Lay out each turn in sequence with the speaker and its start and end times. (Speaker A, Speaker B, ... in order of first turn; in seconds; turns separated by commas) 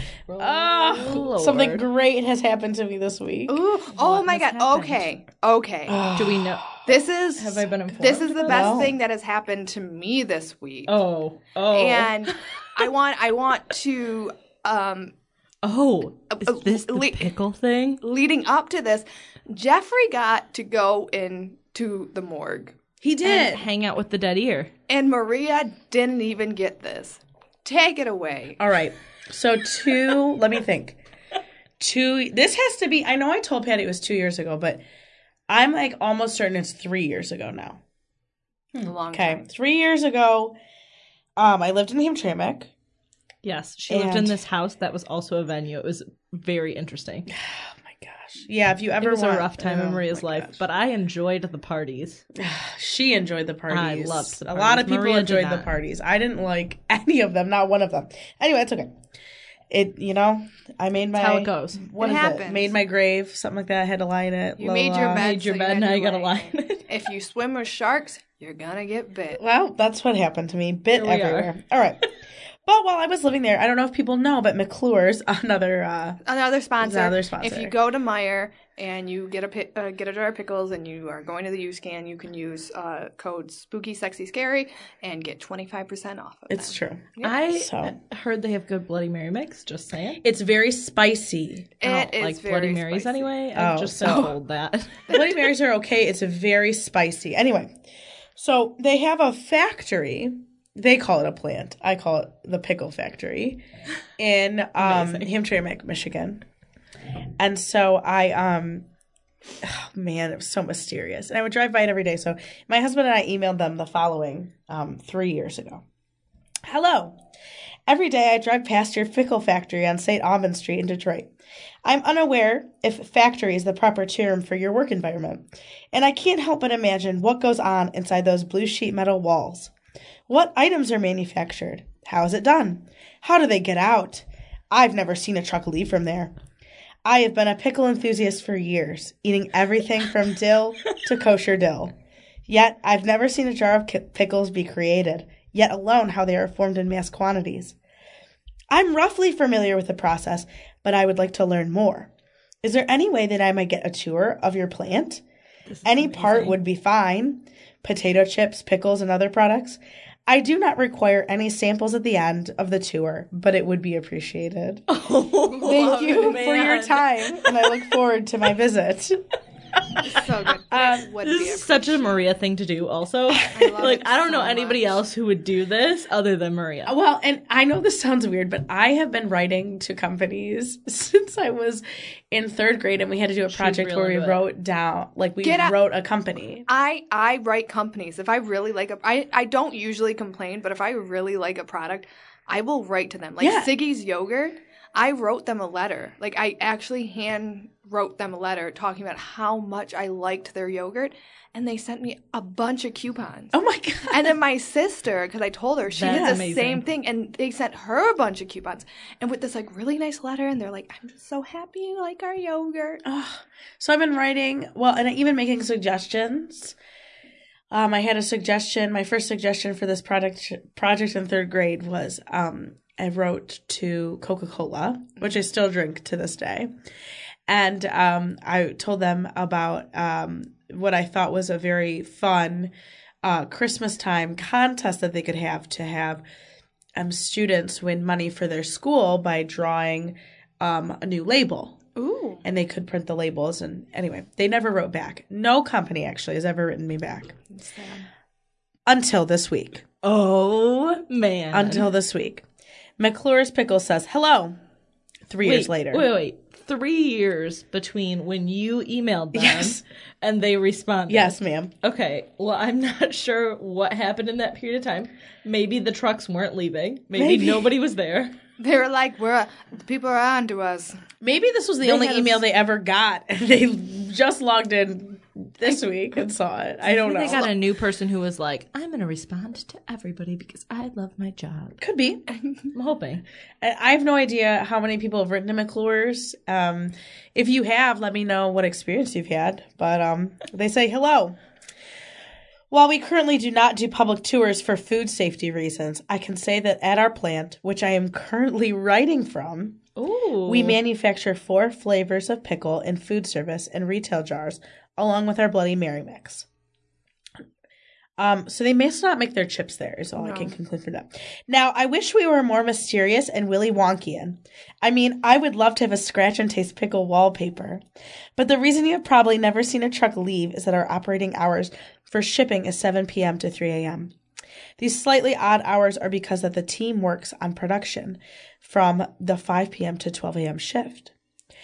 Speaker A: 0.3-1.8, Speaker B: 0.4-3.6, Speaker C: 3.5-6.1, Speaker A: 3.9-5.1, Speaker B: 5.9-6.8, Speaker A: 6.2-6.8, Speaker C: 6.8-10.9, Speaker A: 7.4-8.9, Speaker B: 8.4-8.9, Speaker A: 10.9-12.9, Speaker C: 11.7-15.1, Speaker A: 15.6-18.0, Speaker C: 16.3-17.3, Speaker C: 18.0-22.8, Speaker B: 23.0-23.6, Speaker A: 23.2-24.7, Speaker C: 24.9-28.6, Speaker B: 28.6-31.0, Speaker B: 31.8-34.8, Speaker B: 35.5-37.8, Speaker C: 38.8-39.4, Speaker B: 38.8-40.5, Speaker B: 41.4-42.7, Speaker A: 43.4-47.3, Speaker B: 43.9-44.4, Speaker B: 47.3-50.6, Speaker A: 49.0-52.2, Speaker B: 52.3-58.9, Speaker A: 53.7-55.7, Speaker B: 59.7-65.2, Speaker A: 61.1-61.8, Speaker C: 62.0-62.7, Speaker C: 64.6-69.4, Speaker A: 65.1-66.9, Speaker B: 69.4-72.0, Speaker A: 70.9-71.5, Speaker B: 72.7-76.2, Speaker C: 76.2-87.4, Speaker B: 76.8-77.7, Speaker B: 86.5-88.0, Speaker A: 87.2-90.2, Speaker B: 90.2-91.7, Speaker C: 91.8-93.3, Speaker A: 91.8-95.3, Speaker B: 93.5-94.3, Speaker B: 95.1-97.7, Speaker B: 98.3-103.6, Speaker B: 104.2-106.4, Speaker A: 104.8-105.3, Speaker B: 107.4-108.8, Speaker B: 109.6-115.8, Speaker B: 116.7-117.2, Speaker B: 117.9-121.3, Speaker B: 121.8-129.7, Speaker B: 130.3-136.3, Speaker B: 137.0-141.9, Speaker B: 142.4-147.7, Speaker B: 148.7-152.1, Speaker B: 152.6-155.2, Speaker A: 155.7-156.6, Speaker B: 155.8-164.8, Speaker A: 164.9-167.8, Speaker B: 165.6-169.2, Speaker C: 165.6-166.4, Speaker A: 169.8-170.2, Speaker C: 170.0-172.2, Speaker B: 170.7-171.1, Speaker A: 171.2-176.9, Speaker B: 173.3-173.6, Speaker C: 173.5-175.0, Speaker B: 176.8-186.6, Speaker A: 183.5-184.4, Speaker C: 185.4-185.7, Speaker C: 186.7-203.6, Speaker B: 193.4-193.7, Speaker B: 203.5-204.3, Speaker C: 204.1-213.0, Speaker A: 205.9-206.8, Speaker B: 206.1-206.4, Speaker B: 213.0-216.8, Speaker B: 217.7-226.7, Speaker B: 227.5-232.7, Speaker B: 233.2-236.2, Speaker B: 236.9-241.8, Speaker C: 241.9-242.4, Speaker B: 242.4-247.4, Speaker C: 247.5-248.1, Speaker B: 248.8-249.8, Speaker A: 250.0-251.9, Speaker B: 251.5-252.4, Speaker B: 253.0-254.6, Speaker B: 255.3-256.1, Speaker A: 255.4-268.3, Speaker B: 259.3-259.8, Speaker B: 261.1-261.7, Speaker B: 267.1-267.7, Speaker C: 268.6-271.0, Speaker B: 271.2-277.5, Speaker C: 271.8-272.4, Speaker A: 276.9-281.8, Speaker B: 281.8-282.2, Speaker A: 282.7-283.2, Speaker B: 283.6-291.4, Speaker B: 292.7-299.8, Speaker A: 299.9-300.8, Speaker B: 300.4-306.4, Speaker B: 308.2-317.8, Speaker C: 310.2-310.5, Speaker B: 318.4-324.1, Speaker B: 324.8-331.1